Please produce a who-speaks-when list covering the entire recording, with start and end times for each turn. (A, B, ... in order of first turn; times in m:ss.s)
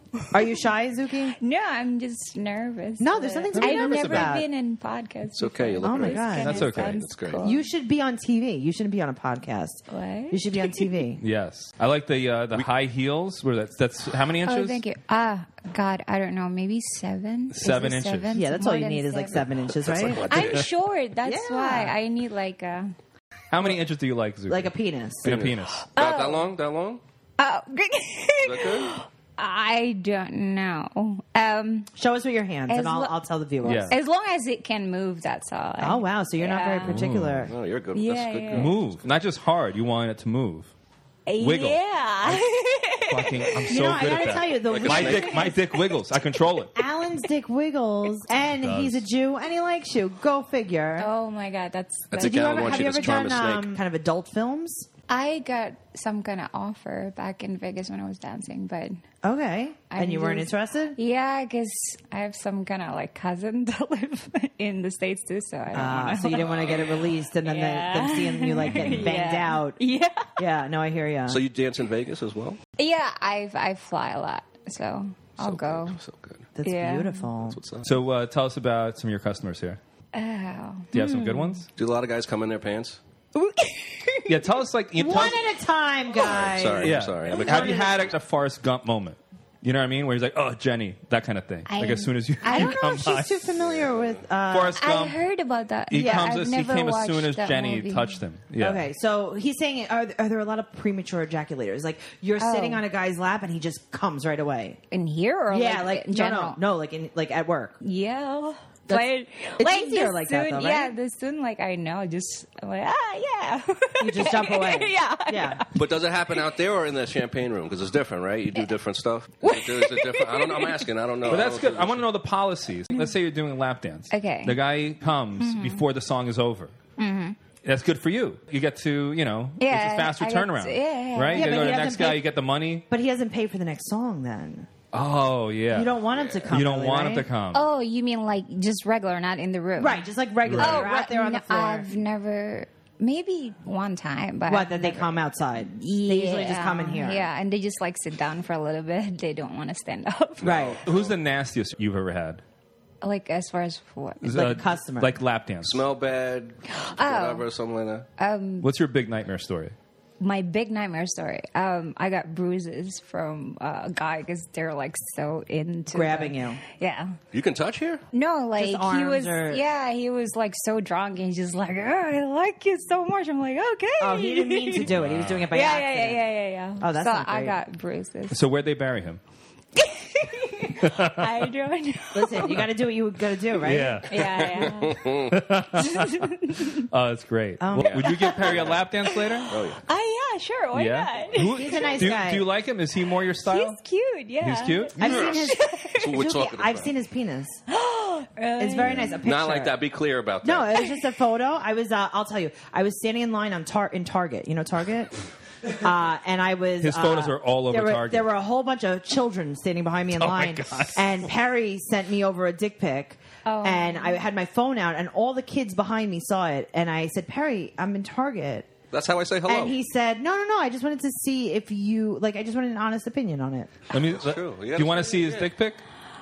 0:00.1-0:00.5 A
0:00.3-0:01.4 B
0:01.4-0:07.7 A
0:03.0-0:04.4 B
0:03.5-0:04.3 C
0:05.4-0:07.6 D
0:05.8-0:06.6 B
0:06.4-0:07.0 C
0:07.4-0:11.2 B
0:09.9-0:10.8 A
0:11.2-0:14.8 C
0:14.4-0:19.4 A
0:17.5-0:18.3 C
0:18.3-0:20.5 B
0:19.4-0:20.7 D
0:20.3-0:22.9 A
0:21.2-0:22.0 B
0:23.5-0:25.9 C
0:24.5-0:25.4 B
0:25.2-0:27.0 D
0:26.0-0:26.5 A
0:27.4-0:31.9 A
0:28.4-0:28.9 D
0:32.0-0:33.9 B
0:32.7-0:37.0 A
0:33.6-0:33.9 C
0:35.8-0:37.5 B
0:36.9-0:37.5 C
0:37.4-0:38.8 D
0:37.9-0:38.8 A
0:38.5-0:40.7 C
0:41.2-0:43.8 A
0:41.4-0:42.4 C
0:43.1-0:46.7 C
0:43.7-0:45.5 B
0:44.6-0:45.4 D
0:45.1-0:46.0 A
0:46.7-0:51.1 B
0:48.6-0:49.0 C
0:51.0-0:53.1 A
0:52.1-0:53.8 D
0:52.2-0:54.9 B
0:55.1-0:59.0 A
0:59.2-1:01.0 B
0:59.9-1:06.7 A
1:05.7-1:09.8 B
1:06.4-1:07.0 D
1:07.4-1:10.4 A
1:10.4-1:11.4 B
1:11.3-1:12.6 D
1:12.8-1:16.0 A
1:15.4-1:16.4 D
1:16.6-1:17.6 B
1:16.6-1:17.3 A
1:17.5-1:17.9 D
1:17.8-1:19.8 C
1:20.1-1:21.6 A
1:20.9-1:21.7 C
1:21.8-1:23.0 D
1:23.3-1:24.5 A
1:24.2-1:25.4 C
1:25.0-1:28.0 B
1:26.1-1:27.9 D
1:26.8-1:33.5 C
1:31.6-1:32.8 A
1:32.5-1:34.8 B
1:33.6-1:34.2 D
1:34.5-1:35.2 C
1:34.8-1:38.2 A
1:35.9-1:38.9 C
1:35.9-1:36.3 B
1:38.6-1:44.8 B
1:42.4-1:42.8 A
1:44.9-1:46.6 A
1:45.5-1:47.8 B
1:47.8-1:55.6 A
1:49.6-1:50.9 B
1:54.0-1:55.6 B
1:55.7-2:02.0 D
1:59.4-2:00.9 A
2:01.3-2:06.7 C
2:04.1-2:04.6 A
2:05.4-2:05.8 A
2:07.0-2:07.4 A
2:07.6-2:12.8 C
2:09.6-2:11.8 A
2:11.3-2:14.7 B
2:14.9-2:17.6 C
2:15.7-2:17.3 B
2:16.1-2:16.5 D
2:17.5-2:30.6 A
2:19.8-2:21.9 B
2:20.4-2:20.8 C
2:24.5-2:27.3 B
2:30.4-2:31.1 D
2:30.4-2:30.8 B
2:30.8-2:32.4 C
2:33.0-2:34.5 A
2:34.2-2:35.8 C
2:34.3-2:35.2 B
2:35.6-2:38.1 D
2:36.7-2:37.4 A
2:38.2-2:38.7 A
2:38.6-2:39.7 C
2:40.2-2:47.2 A
2:45.9-2:46.6 B
2:47.3-2:48.0 D
2:48.1-2:54.9 A
2:48.6-2:49.6 B
2:54.0-2:56.2 B
2:54.9-2:55.5 C
2:55.5-2:58.4 A
2:56.8-2:57.6 B
2:58.3-2:59.2 C
2:59.7-3:02.7 A
3:00.8-3:01.5 C
3:02.1-3:04.1 B
3:03.6-3:04.6 C
3:04.1-3:05.1 A
3:04.4-3:05.3 D
3:05.3-3:09.6 C
3:05.7-3:06.8 A
3:07.6-3:08.5 B
3:07.7-3:08.8 D
3:08.1-3:12.0 A
3:09.5-3:09.8 D
3:10.7-3:13.8 C
3:11.4-3:12.5 B
3:13.4-3:16.2 A
3:14.4-3:15.2 C
3:15.0-3:17.6 B
3:15.0-3:16.9 D
3:17.7-3:19.2 A
3:18.6-3:19.7 B
3:18.8-3:20.7 D
3:20.4-3:25.2 B
3:25.8-3:38.7 B
3:26.8-3:28.3 C
3:30.1-3:31.2 C
3:33.4-3:34.2 A
3:38.9-3:39.8 D
3:39.5-3:43.8 B
3:43.9-3:45.8 C
3:44.0-3:45.5 D